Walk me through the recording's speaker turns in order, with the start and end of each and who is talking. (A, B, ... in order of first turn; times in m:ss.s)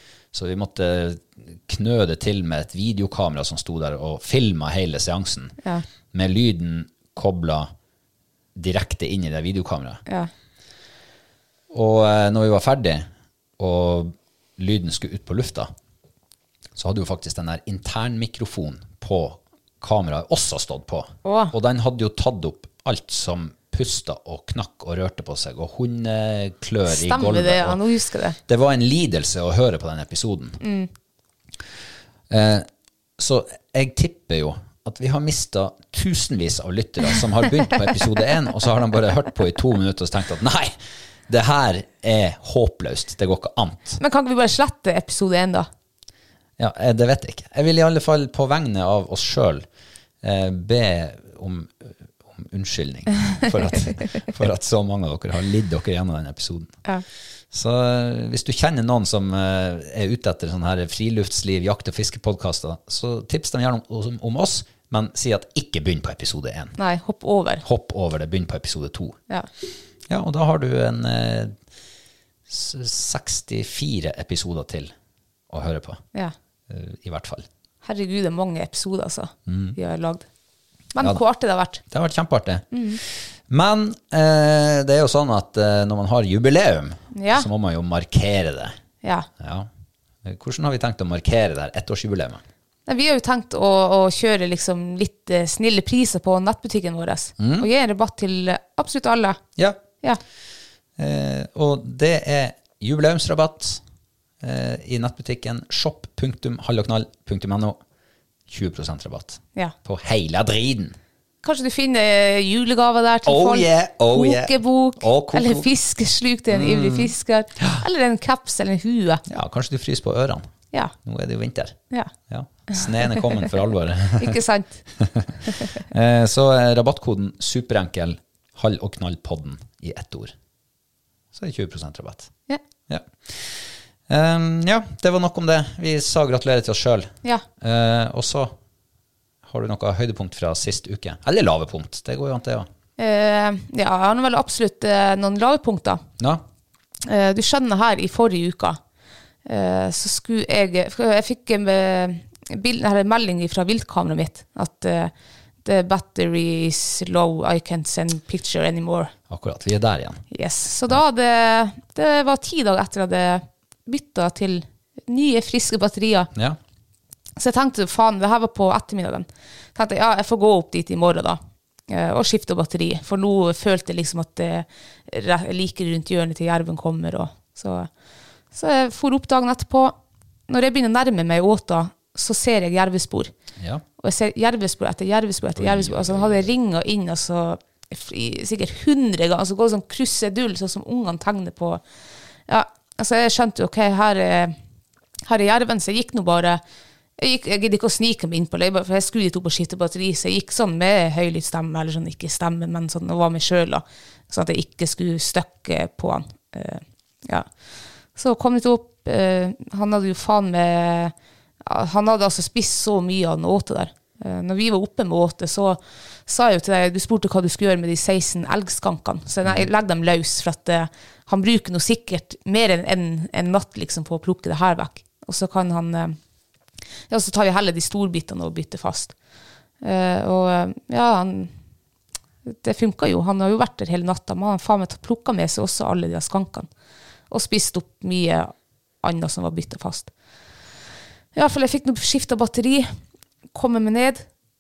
0:00.3-0:05.6 A
0:06.1-0:07.7 A
0:08.6-0:10.0 A
0:11.7-0:13.1 A
0:13.6-0:15.7 A
0:16.8-0:27.8 A
0:21.2-0:21.5 B
0:26.9-0:28.4 B
0:28.5-0:30.6 A
0:30.6-0:30.9 B
0:32.3-0:40.8 A
0:41.3-0:44.0 A
0:44.0-0:45.7 B
0:46.6-0:49.7 A
0:50.2-0:56.8 A
0:57.5-1:06.8 A
1:06.8-1:07.6 B
1:07.6-1:09.2 A
1:10.1-1:11.6 A
1:12.5-1:14.9 A
1:15.5-1:16.0 A
1:16.7-1:17.5 A
1:17.8-1:20.3 B
1:19.5-1:19.8 A
1:20.9-1:21.8 B
1:21.8-1:22.7 A
1:22.7-1:23.0 B
1:23.5-1:28.8 A
1:27.1-1:27.5 B
1:29.0-1:29.3 B
1:29.4-1:29.7 A
1:30.2-1:32.4 A
1:32.9-1:39.4 B
1:37.4-1:37.7 A
1:39.6-1:39.8 A
1:41.0-1:43.8 A
1:44.4-1:47.8 A
1:48.5-1:51.0 A
1:51.4-1:59.2 B
1:53.2-1:55.7 A
1:56.5-1:57.8 A
1:59.3-2:00.4 A
2:01.0-2:04.4 A
2:02.7-2:03.5 B
2:04.2-2:04.8 B
2:05.0-2:10.3 A
2:11.3-2:12.3 A
2:12.9-2:18.6 A
2:19.5-2:22.7 A
2:23.0-2:26.0 B
2:27.0-2:28.8 B
2:29.5-2:35.1 B
2:35.6-2:39.1 B
2:39.3-2:40.2 A
2:40.3-2:46.3 B
2:46.3-2:46.6 A
2:47.4-2:57.9 B
2:58.5-3:00.0 B
3:00.5-3:03.3 B
3:03.6-3:03.8 A
3:04.0-3:11.8 B
3:05.6-3:06.5 A
3:12.5-3:14.6 B
3:15.3-3:16.6 B
3:17.2-3:27.5 B
3:28.2-3:46.2 B
3:47.1-3:49.1 B
3:49.8-3:51.5 B
3:52.5-3:56.7 B
3:57.3-4:00.1 B
4:01.4-4:02.9 B
4:03.5-4:04.2 B